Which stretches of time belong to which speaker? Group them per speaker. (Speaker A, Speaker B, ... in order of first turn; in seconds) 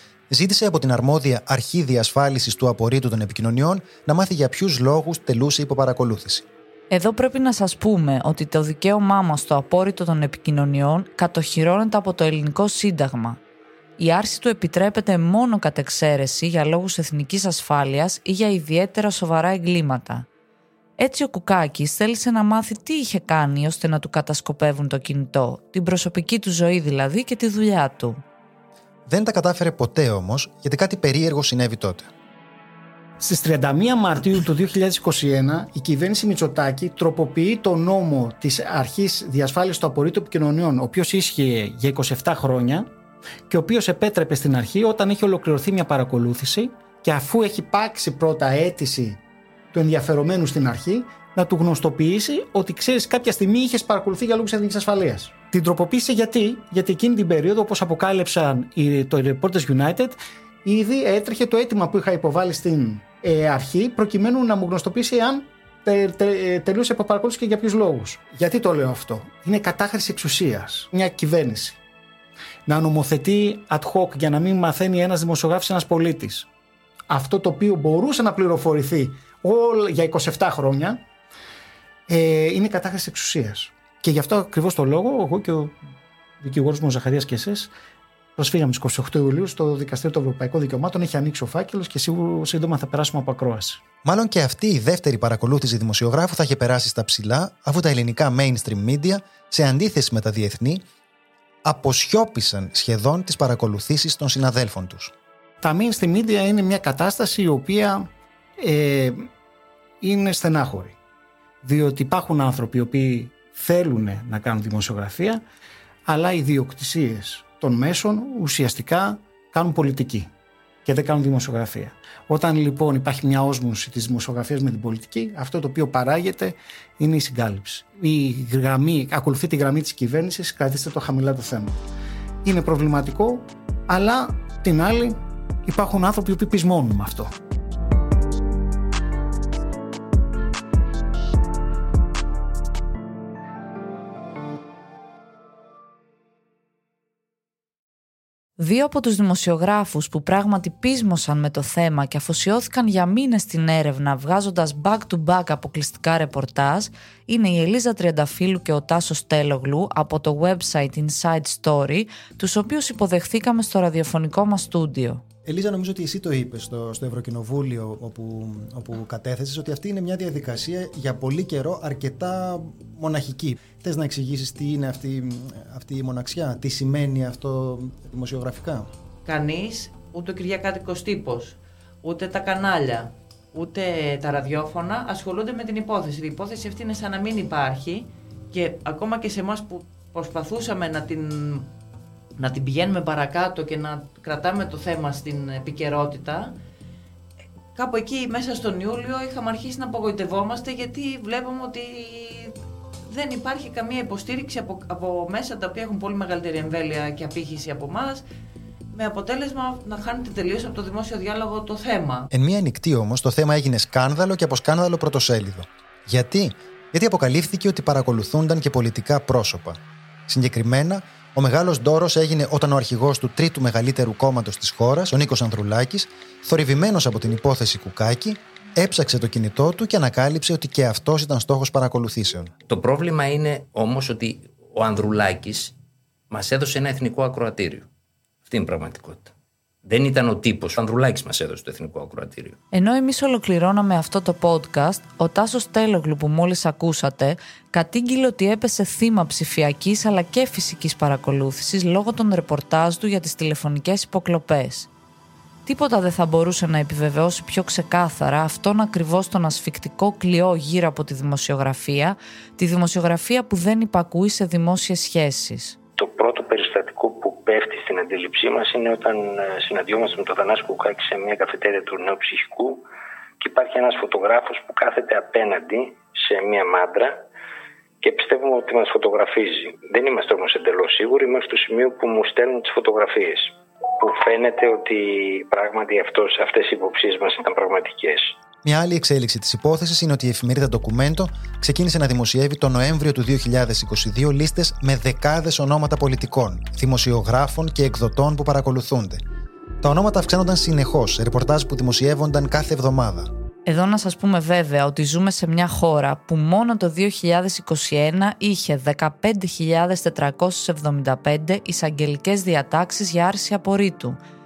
Speaker A: 0.3-6.5, 29.1-32.1, 94.0-100.8, 101.6-105.1, 165.4-178.9, 212.3-232.5, 288.6-299.2, 299.8-303.3
Speaker B: 6.9-13.4, 14.0-20.3, 21.0-28.2, 148.6-165.2, 242.7-254.9, 255.7-265.8, 303.6-314.2
Speaker C: 33.2-42.9, 43.5-49.2, 49.7-71.8, 72.7-76.5, 77.1-81.0, 82.1-85.8, 86.4-87.7, 88.3-93.8, 105.6-109.3, 110.0-111.0, 111.6-115.4, 116.0-120.3, 120.8-131.8, 132.4-137.3
Speaker D: 179.2-191.7, 192.4-196.6, 197.7-202.5, 203.1-208.2, 208.9-212.3
Speaker E: 232.7-235.8, 236.3-237.9, 238.5-239.3, 239.8-242.6
Speaker F: 266.0-272.8, 273.4-277.2, 278.0-288.4